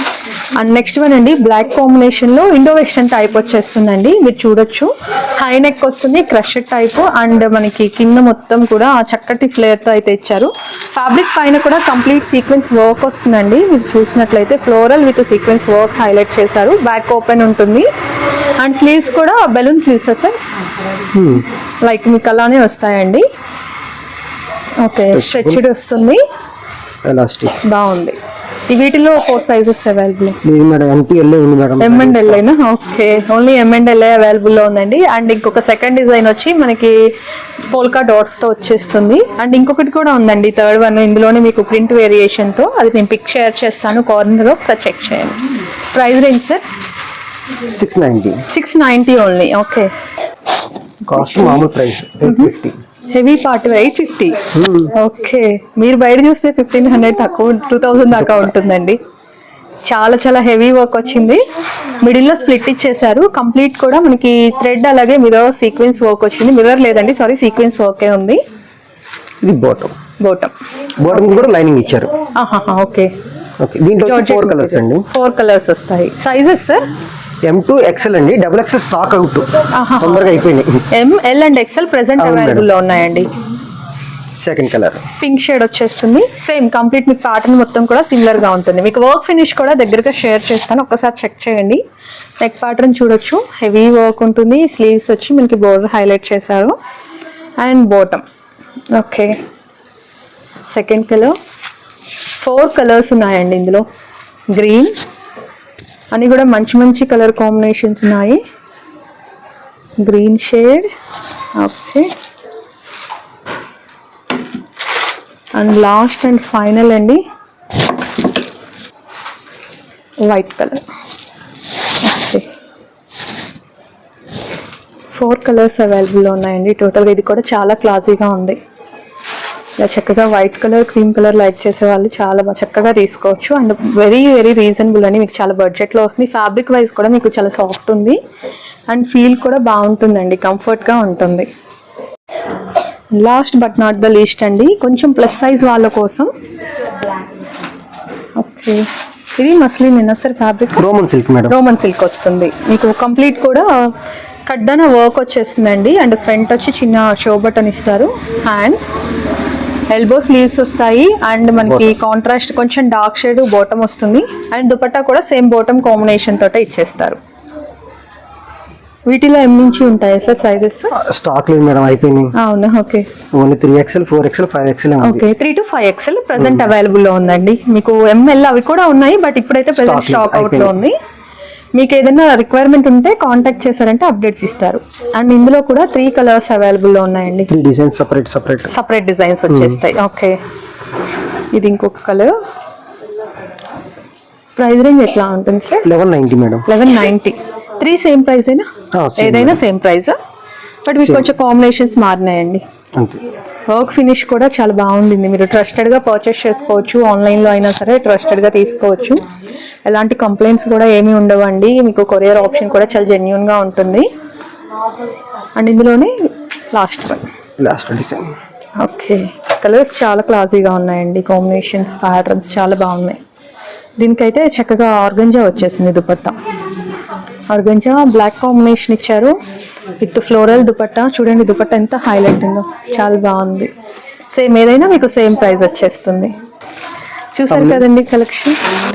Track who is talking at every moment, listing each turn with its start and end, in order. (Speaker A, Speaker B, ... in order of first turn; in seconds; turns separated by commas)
Speaker A: 0.6-17.9, Speaker A: 18.6-20.4, Speaker B: 21.1-21.4, Speaker A: 21.8-23.2, Speaker A: 24.8-26.2, Speaker B: 25.1-25.6, Speaker B: 27.0-27.6, Speaker A: 27.6-28.2, Speaker A: 28.7-30.4, Speaker B: 30.4-32.4, Speaker A: 31.8-37.0, Speaker A: 37.7-46.6, Speaker B: 47.7-48.4, Speaker A: 48.5-49.9, Speaker B: 51.1-52.8, Speaker A: 51.1-51.6, Speaker A: 52.2-52.5, Speaker A: 53.1-59.0, Speaker B: 54.5-54.9, Speaker B: 58.1-58.5, Speaker A: 59.8-61.4, Speaker A: 62.0-68.4, Speaker B: 69.4-69.9, Speaker A: 70.2-70.5, Speaker B: 71.0-72.1, Speaker A: 71.1-71.5, Speaker A: 72.3-73.1, Speaker B: 73.6-75.0, Speaker A: 74.0-76.8, Speaker B: 77.4-80.9, Speaker A: 79.7-83.3, Speaker B: 82.2-82.7, Speaker B: 84.4-85.0, Speaker A: 85.2-91.8, Speaker A: 92.4-96.7, Speaker A: 97.6-98.2, Speaker A: 98.9-99.4, Speaker A: 100.7-101.3, Speaker A: 102.4-103.8, Speaker A: 104.5-105.0, Speaker A: 106.1-108.4, Speaker A: 110.0-110.9, Speaker A: 111.6-112.1, Speaker A: 115.5-117.2, Speaker A: 120.2-120.8, Speaker A: 122.0-122.5, Speaker A: 125.1-128.6, Speaker A: 129.8-138.2, Speaker A: 138.9-141.5, Speaker A: 143.1-146.3, Speaker A: 148.4-148.9, Speaker A: 149.4-150.9, Speaker B: 150.8-151.6, Speaker A: 151.5-153.9, Speaker A: 154.5-159.0, Speaker A: 159.9-167.2, Speaker B: 161.6-161.9, Speaker A: 169.1-170.9, Speaker B: 170.9-172.3, Speaker A: 172.3-173.1, Speaker B: 173.3-175.2, Speaker A: 175.0-180.9, Speaker B: 176.4-176.7, Speaker B: 179.7-180.8, Speaker A: 181.7-187.5, Speaker B: 187.5-188.7, Speaker A: 188.7-190.4, Speaker B: 189.5-189.8, Speaker A: 191.5-192.3, Speaker A: 194.6-195.9, Speaker B: 195.8-196.7, Speaker A: 196.7-200.2, Speaker B: 198.9-199.6, Speaker A: 200.8-202.6, Speaker B: 201.0-201.3, Speaker B: 202.9-203.2, Speaker A: 203.7-209.2, Speaker A: 209.8-214.1, Speaker A: 215.6-217.3, Speaker B: 217.6-218.3, Speaker A: 218.8-223.2, Speaker A: 224.0-226.3, Speaker A: 227.5-229.3, Speaker A: 230.0-233.7, Speaker A: 234.3-236.3, Speaker A: 237.3-238.7, Speaker B: 237.5-237.8